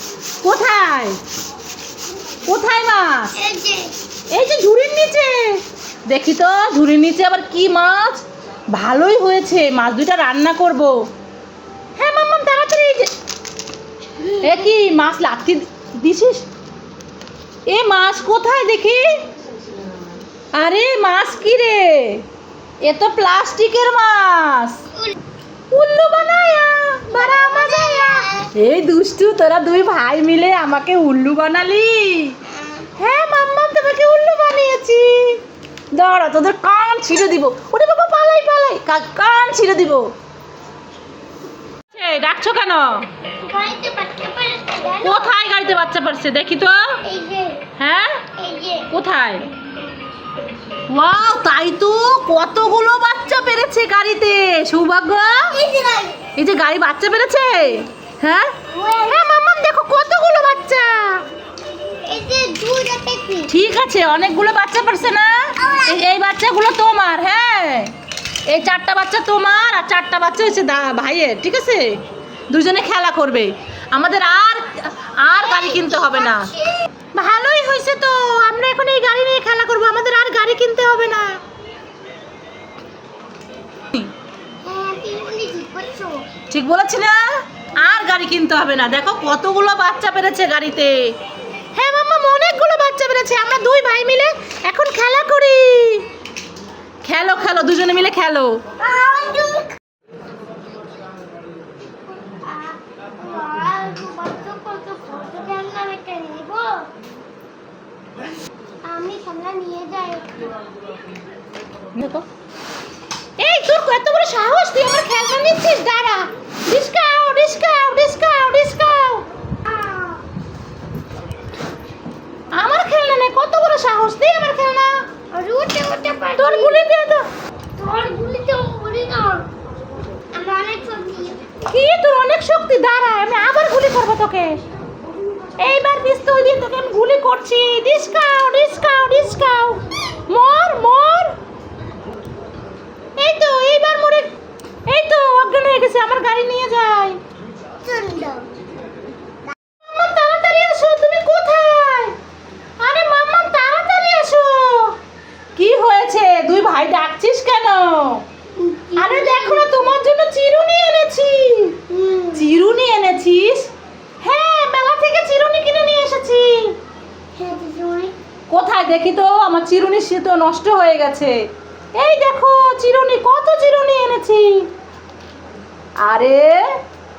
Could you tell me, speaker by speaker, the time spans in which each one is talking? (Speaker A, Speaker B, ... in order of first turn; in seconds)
Speaker A: 0.4-1.1, 2.5-3.4, 4.3-10.9, 12.0-13.1, 14.4-16.4, 17.7-19.1, 20.5-22.2, 22.8-24.8, 25.7-32.4, 33.0-35.4, 35.9-40.1, 41.9-43.0, 45.0-46.8, 47.8-48.2, 48.9-49.5, 50.9-55.5, 56.4-58.5, 59.1-61.2, 63.5-65.3, 65.9-67.9, 68.5-71.9, 72.5-76.5, 77.1-81.3, 86.5-87.2, 87.8-91.1, 91.7-96.0, 97.0-98.6, 112.0-112.2, 113.4-119.2, 122.5-124.9, 126.4-127.2, 131.7-134.6, 135.6-141.3, 143.2-144.3, 144.9-147.2, 149.9-152.1, 152.8-154.9, 155.6-158.2, 158.9-161.8, 162.3-163.6, 164.2-166.6, 168.5-171.3, 171.9-174.6, 176.0-176.6
Speaker B: 3.3-3.9, 27.1-28.5, 32.5-32.9, 43.4-45.3, 47.0-47.6, 48.4-48.9, 55.5-56.2, 58.7-59.4, 62.0-63.5, 65.6-66.0, 75.4-76.8, 84.6-86.2, 98.8-99.7, 102.3-106.9, 108.8-110.5, 119.7-120.2, 125.3-126.8, 127.8-129.4, 130.3-131.4, 147.8-148.5, 158.6-160.0, 161.9-162.4, 167.4-168.1